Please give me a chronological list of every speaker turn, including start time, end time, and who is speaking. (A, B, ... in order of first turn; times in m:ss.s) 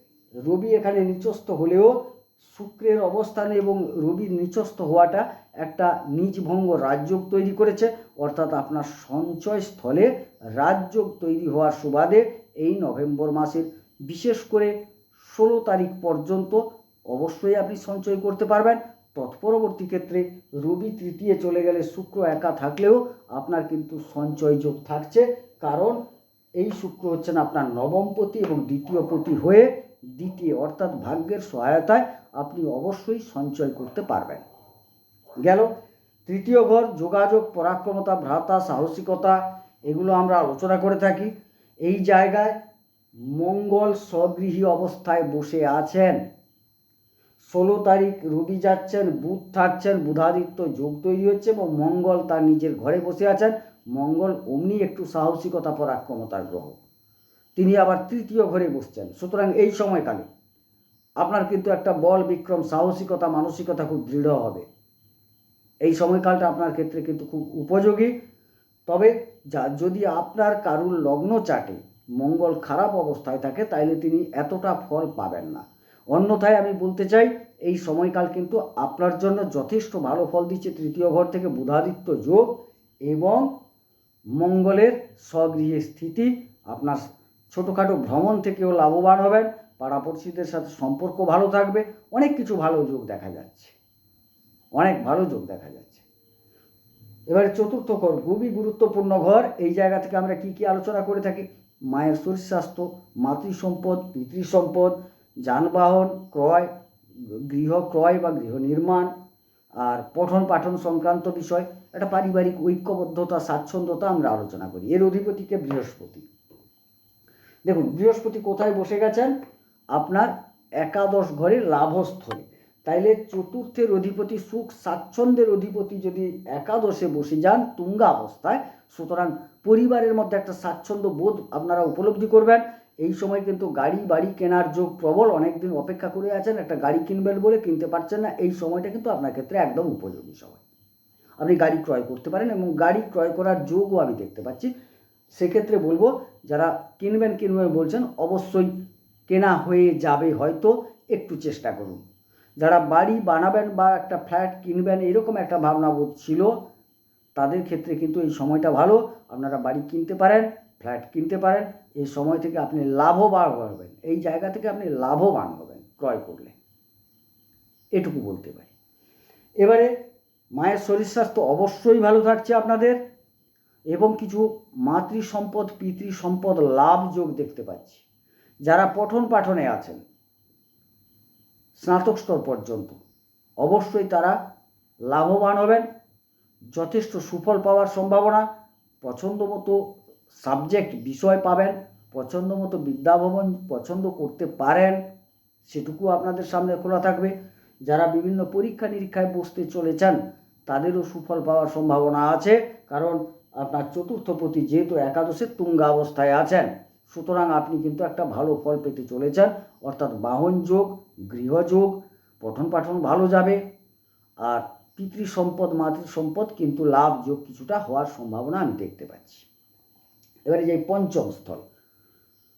0:00.4-0:26.0 A
0:26.6-0:34.4 A
0:35.4-0:35.7 A
0:36.3-0:42.6 A
0:43.3-0:46.2 A
0:47.4-0:56.8 A
0:57.6-1:00.3 A
1:01.2-1:04.7 A
1:05.8-1:08.1 A
1:08.9-1:23.5 A
1:24.4-1:33.8 A
1:34.7-1:36.0 A
1:37.3-1:46.7 A
1:47.2-1:49.1 A
1:49.8-1:56.3 A
1:57.6-1:59.4 A
1:59.9-2:20.6 A
2:21.4-2:24.7 A
2:25.3-2:32.0 A
2:32.6-2:36.6 A
2:37.4-2:46.5 A
2:47.9-2:48.7 A
2:49.6-2:49.9 A
2:50.5-2:53.0 A
2:53.9-2:58.0 A
2:58.6-3:00.0 A
3:01.8-3:03.0 A
3:03.6-3:04.4 A
3:05.1-3:05.8 A
3:06.7-3:08.5 A
3:09.0-3:09.8 A
3:10.3-3:15.0 A
3:15.7-3:33.6 A
3:34.4-3:39.5 A
3:40.5-3:41.6 A